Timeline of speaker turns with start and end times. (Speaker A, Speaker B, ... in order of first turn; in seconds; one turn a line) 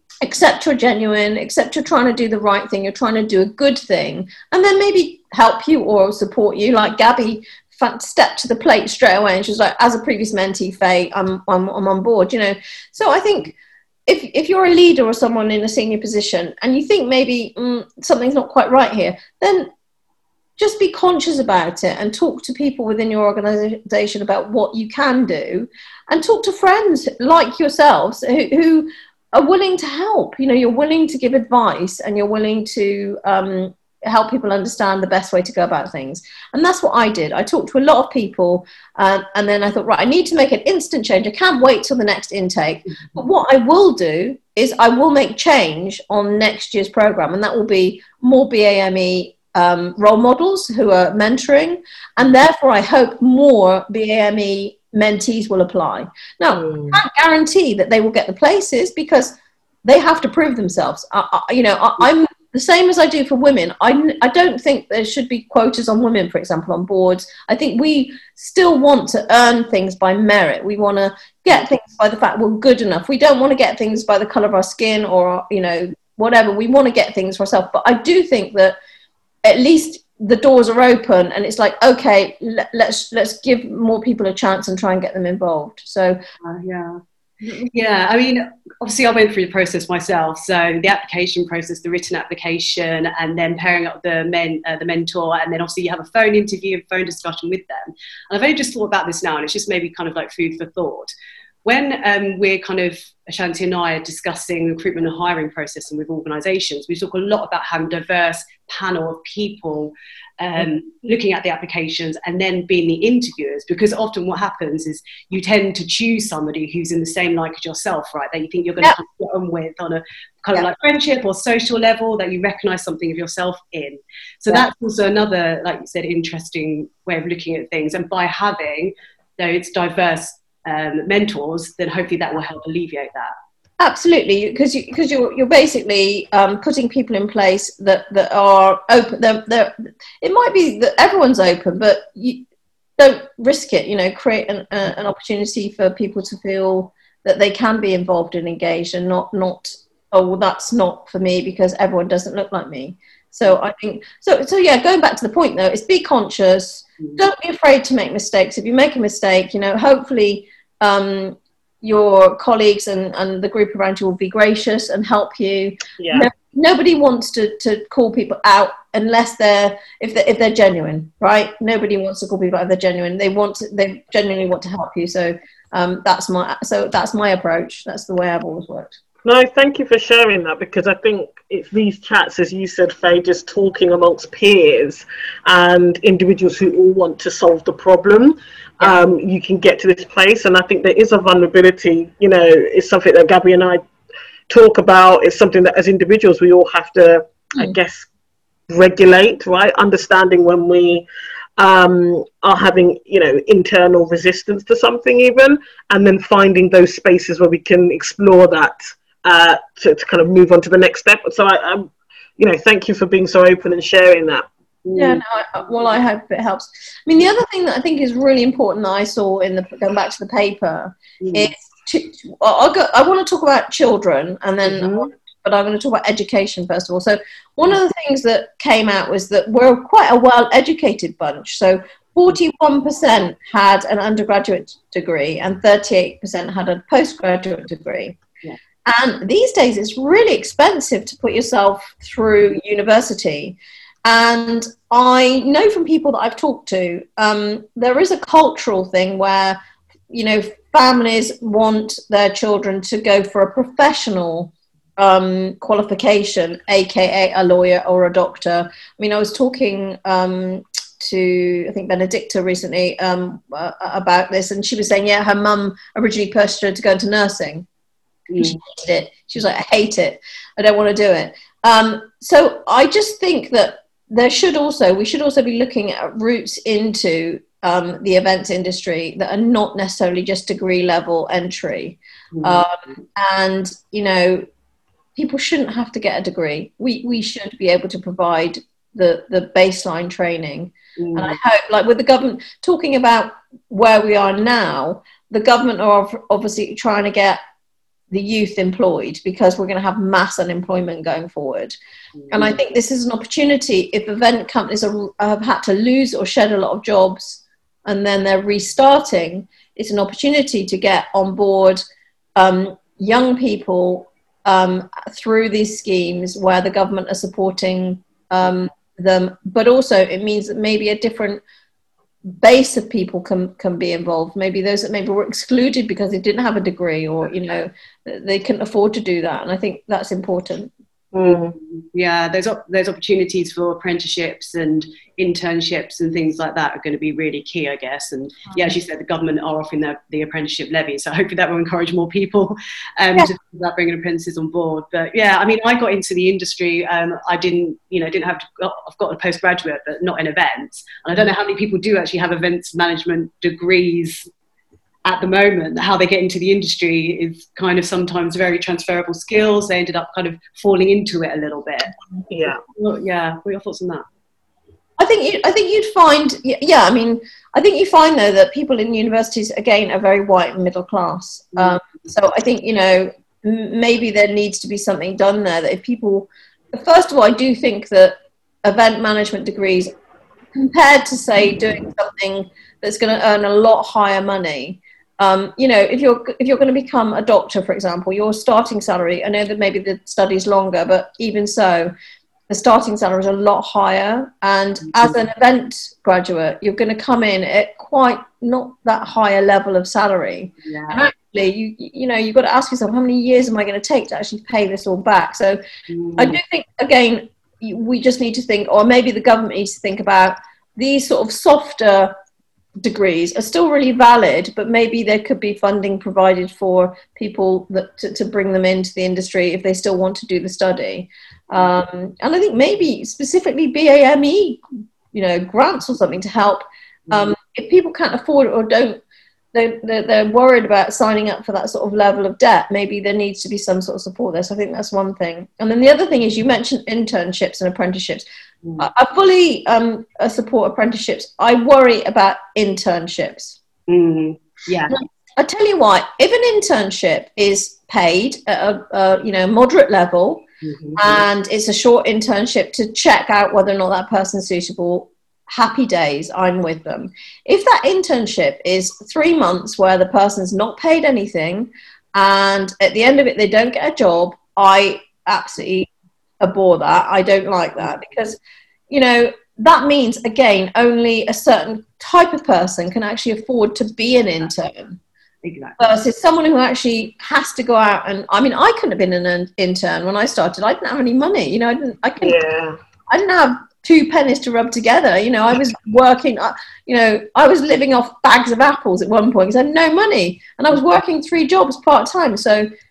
Speaker A: 0.2-13.5
Speaker A: 14.1-19.7
Speaker A: 20.6-59.3
Speaker B: 56.5-57.0
Speaker A: 59.9-78.8
Speaker A: 79.4-86.2
Speaker C: 86.4-87.0
Speaker C: 87.6-101.1
Speaker C: 101.6-133.3
Speaker A: 133.8-142.4
Speaker A: 143.0-179.0
Speaker B: 166.0-166.3
Speaker B: 179.2-193.8
Speaker B: 194.5-198.1
Speaker B: 198.7-201.1
Speaker B: 201.6-214.5
Speaker C: 214.8-215.2
Speaker A: 214.9-238.2
Speaker C: 221.2-221.5
Speaker C: 224.7-225.1
Speaker A: 238.9-249.6
Speaker A: 250.1-267.6
Speaker C: 268.3-268.6
Speaker A: 268.4-284.4
Speaker C: 282.3-282.6
Speaker A: 285.1-297.4
Speaker C: 291.0-291.4
Speaker A: 298.1-301.8
Speaker C: 302.2-302.6
Speaker A: 302.3-311.8
Speaker A: 312.4-321.4
Speaker A: 322.4-330.7
Speaker B: 331.1-331.5
Speaker C: 331.6-354.3
Speaker C: 355.0-361.9
Speaker B: 362.3-362.6
Speaker C: 362.8-364.1
Speaker A: 365.0-379.9
Speaker A: 380.6-391.9
Speaker A: 392.5-405.6
Speaker C: 400.6-401.0
Speaker C: 405.9-406.4
Speaker A: 406.2-412.1
Speaker A: 412.8-429.0
Speaker C: 427.1-427.3
Speaker A: 429.5-438.2
Speaker A: 438.8-443.6
Speaker C: 443.9-444.9
Speaker A: 444.9-450.4
Speaker C: 450.6-451.2
Speaker A: 450.9-465.9
Speaker A: 466.4-468.4
Speaker A: 468.9-475.0
Speaker C: 475.4-475.8
Speaker A: 475.8-482.4
Speaker B: 482.2-482.8
Speaker A: 483.1-492.7